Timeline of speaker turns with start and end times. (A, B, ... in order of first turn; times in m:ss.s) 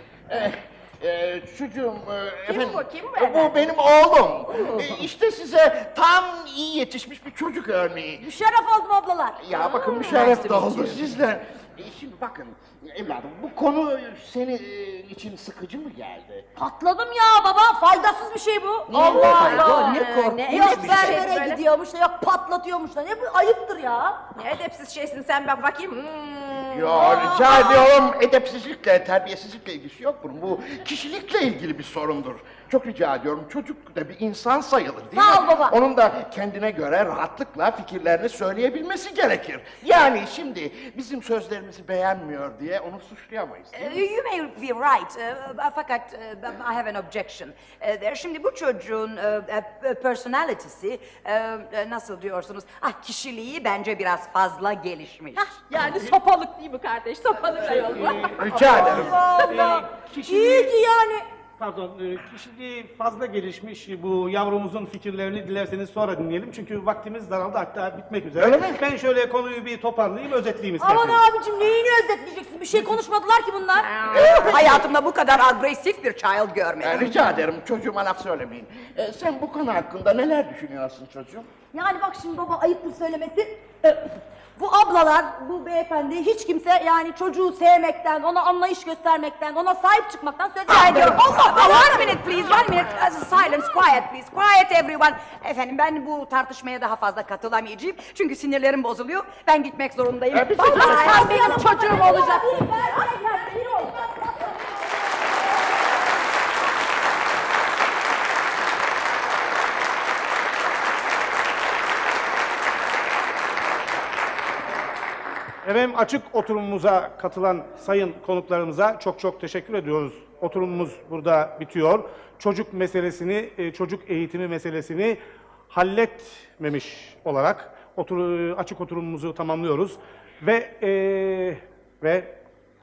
0:00.3-0:08.2 A
0:02.4-0:03.7 B
0:04.5-0:05.0 C
0:08.2-0:10.9 C
0:09.4-0:16.4 A
0:09.6-0:10.3 B
0:10.2-0:10.7 D
0:16.6-0:24.2 C
0:18.9-0:19.7 A
0:18.9-0:21.3 D
0:18.9-0:21.6 B
0:24.4-0:27.9 B
0:26.7-0:44.0 A
0:26.9-0:27.6 C
0:35.1-0:35.8 C
0:43.7-0:55.5 D
0:55.4-0:58.5 B
0:55.8-0:56.2 C
0:57.6-1:00.8 E
0:58.4-0:59.2 A
0:58.6-1:01.3 C
1:01.6-1:11.2 E
1:08.4-1:08.8 A
1:10.8-1:14.5 C
1:13.8-1:14.5 B
1:14.0-1:14.9 A
1:14.3-1:17.1 D
1:16.8-1:21.5 A
1:21.7-1:32.4 C
1:30.7-1:42.0 D
1:40.3-1:41.4 A
1:40.7-1:44.0 B
1:40.7-1:45.4 C
1:55.6-2:05.2 E
2:05.7-2:12.3 E